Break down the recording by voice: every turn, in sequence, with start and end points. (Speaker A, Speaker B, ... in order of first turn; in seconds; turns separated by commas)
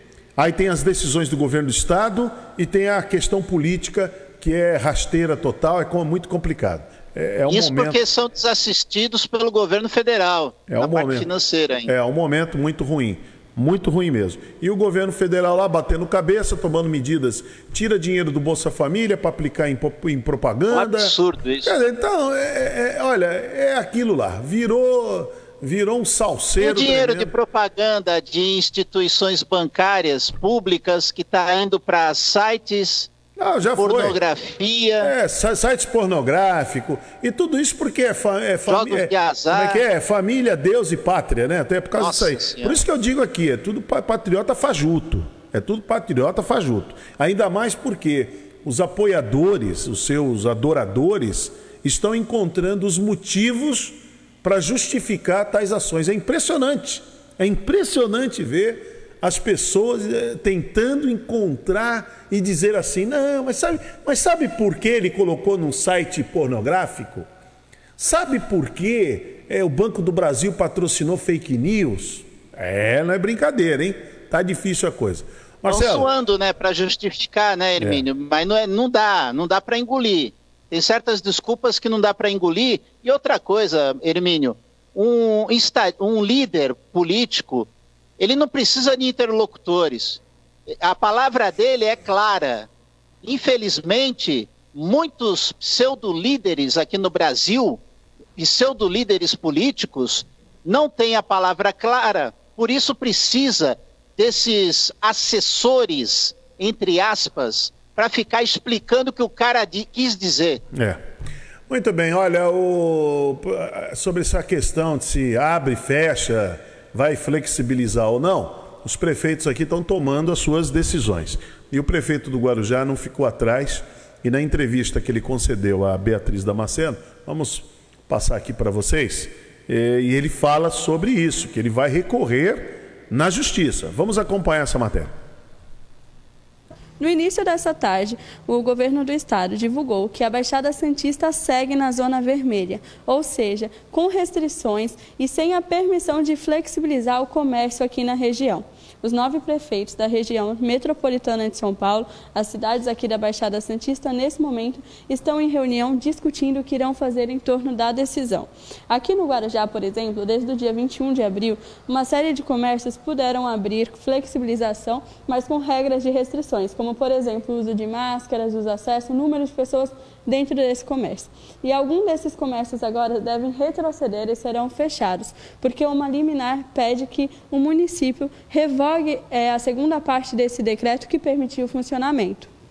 Speaker A: 0.3-8.0, Speaker B: 7.5-11.9, Speaker A: 10.7-11.3, Speaker A: 11.8-27.3, Speaker B: 20.7-21.7, Speaker B: 26.6-33.1, Speaker A: 33.4-34.2, Speaker B: 33.8-35.1, Speaker A: 35.0-67.3, Speaker B: 38.7-39.8, Speaker B: 42.0-42.8, Speaker A: 68.0-76.1, Speaker B: 75.7-90.2, Speaker B: 90.8-92.7, Speaker B: 93.2-97.8, Speaker B: 98.4-110.6, Speaker A: 110.7-111.0, Speaker A: 111.7-135.1, Speaker C: 137.0-182.5